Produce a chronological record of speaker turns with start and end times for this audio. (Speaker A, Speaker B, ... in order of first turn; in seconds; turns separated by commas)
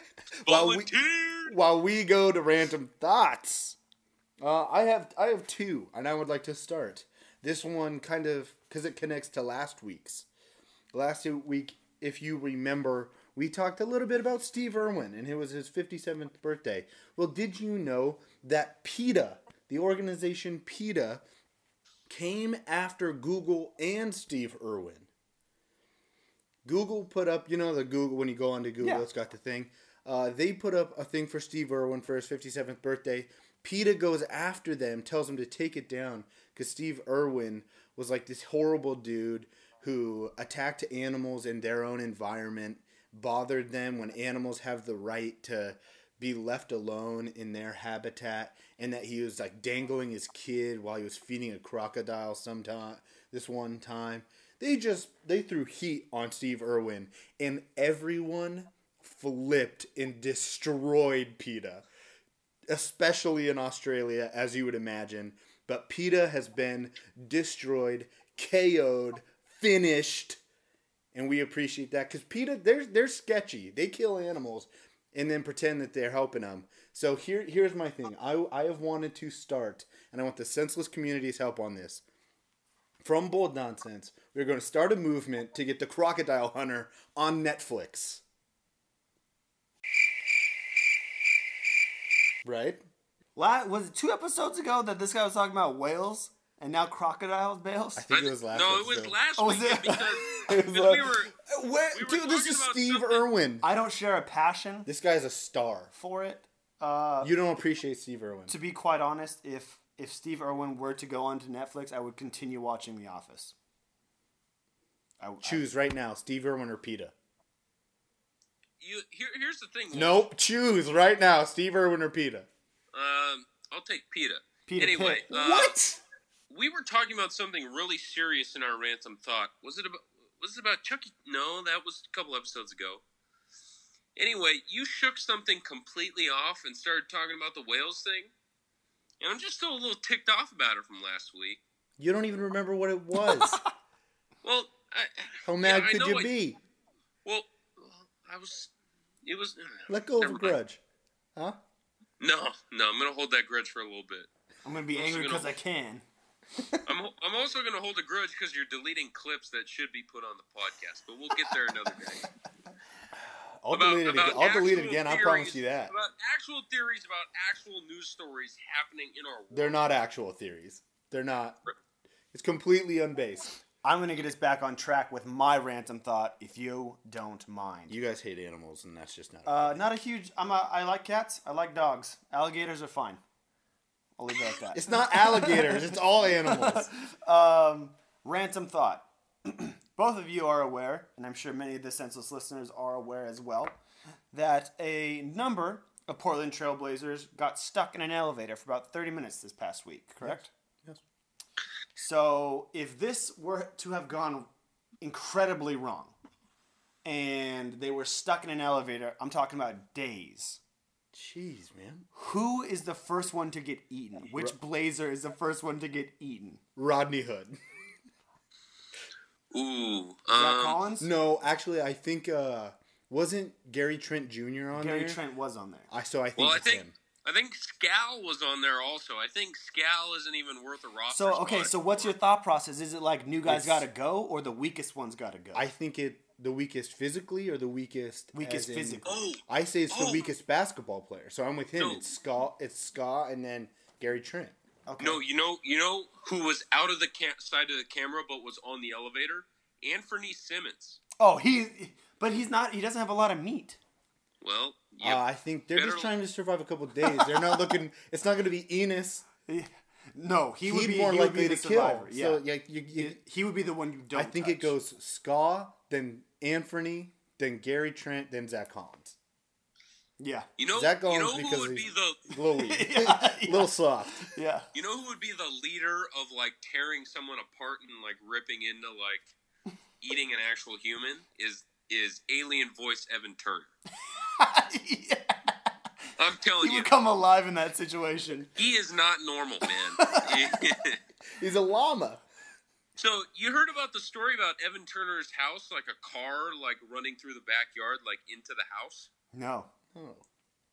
Speaker A: 0.4-0.9, Speaker B: 0.4-1.5, Speaker A: 1.4-3.8, Speaker A: 4.4-10.3, Speaker A: 10.9-21.2, Speaker A: 22.1-25.1, Speaker A: 26.6-61.8, Speaker A: 62.7-70.4, Speaker A: 71.1-82.0, Speaker A: 83.0-88.2, Speaker A: 92.4-92.8, Speaker C: 93.3-98.1, Speaker A: 97.9-99.2, Speaker B: 98.1-101.3, Speaker C: 99.4-100.0, Speaker A: 99.9-103.7, Speaker B: 101.9-103.2, Speaker C: 103.6-104.9, Speaker A: 104.8-105.9, Speaker C: 105.9-107.3, Speaker A: 107.2-108.5, Speaker C: 108.5-113.5, Speaker C: 115.2-115.6, Speaker A: 115.4-117.1, Speaker B: 118.8-120.3, Speaker A: 119.9-122.5, Speaker B: 122.9-125.8, Speaker C: 124.7-126.0, Speaker B: 126.5-133.0, Speaker B: 134.2-138.3, Speaker B: 139.2-141.6, Speaker A: 142.0-143.6, Speaker B: 144.4-146.3, Speaker A: 145.4-146.6, Speaker B: 147.2-148.7, Speaker B: 149.2-150.6, Speaker A: 149.9-150.8, Speaker B: 152.2-154.3, Speaker C: 154.6-156.0, Speaker B: 154.9-155.5, Speaker B: 156.8-162.3, Speaker A: 163.6-165.9, Speaker B: 163.7-169.9, Speaker A: 169.5-171.6, Speaker A: 172.3-173.6, Speaker C: 173.8-178.0, Speaker A: 177.9-179.8, Speaker C: 179.4-183.2, Speaker C: 184.2-193.8, Speaker A: 184.7-186.9, Speaker C: 194.3-200.5, Speaker A: 200.2-201.0, Speaker C: 201.9-204.5, Speaker C: 205.0-206.1, Speaker C: 207.0-210.6, Speaker A: 211.1-212.1, Speaker C: 212.1-216.6, Speaker A: 216.8-217.6, Speaker B: 219.5-220.8, Speaker C: 220.3-221.1, Speaker A: 221.0-225.2, Speaker C: 224.7-225.9, Speaker A: 225.9-226.9, Speaker B: 226.4-232.1, Speaker C: 231.1-235.7, Speaker A: 233.4-233.9, Speaker A: 235.5-244.6, Speaker C: 238.3-239.2, Speaker B: 239.0-240.3, Speaker B: 241.8-242.0, Speaker C: 244.9-245.2, Speaker B: 245.0-251.0, Speaker C: 251.2-253.8, Speaker B: 254.4-256.1, Speaker A: 255.0-259.2, Speaker C: 257.2-257.5, Speaker C: 259.5-262.4, Speaker A: 260.6-263.2, Speaker C: 262.9-264.7, Speaker A: 264.1-269.1, Speaker C: 270.2-270.5, Speaker B: 270.6-272.2, Speaker A: 270.7-274.3, Speaker C: 272.6-274.6, Speaker B: 274.7-279.3, Speaker B: 280.0-283.7, Speaker C: 284.4-285.4, Speaker B: 286.2-286.9, Speaker C: 286.6-288.5, Speaker B: 288.6-291.0, Speaker C: 290.0-290.3, Speaker A: 291.4-292.2, Speaker B: 293.0-299.1, Speaker C: 299.3-299.7, Speaker A: 299.9-300.2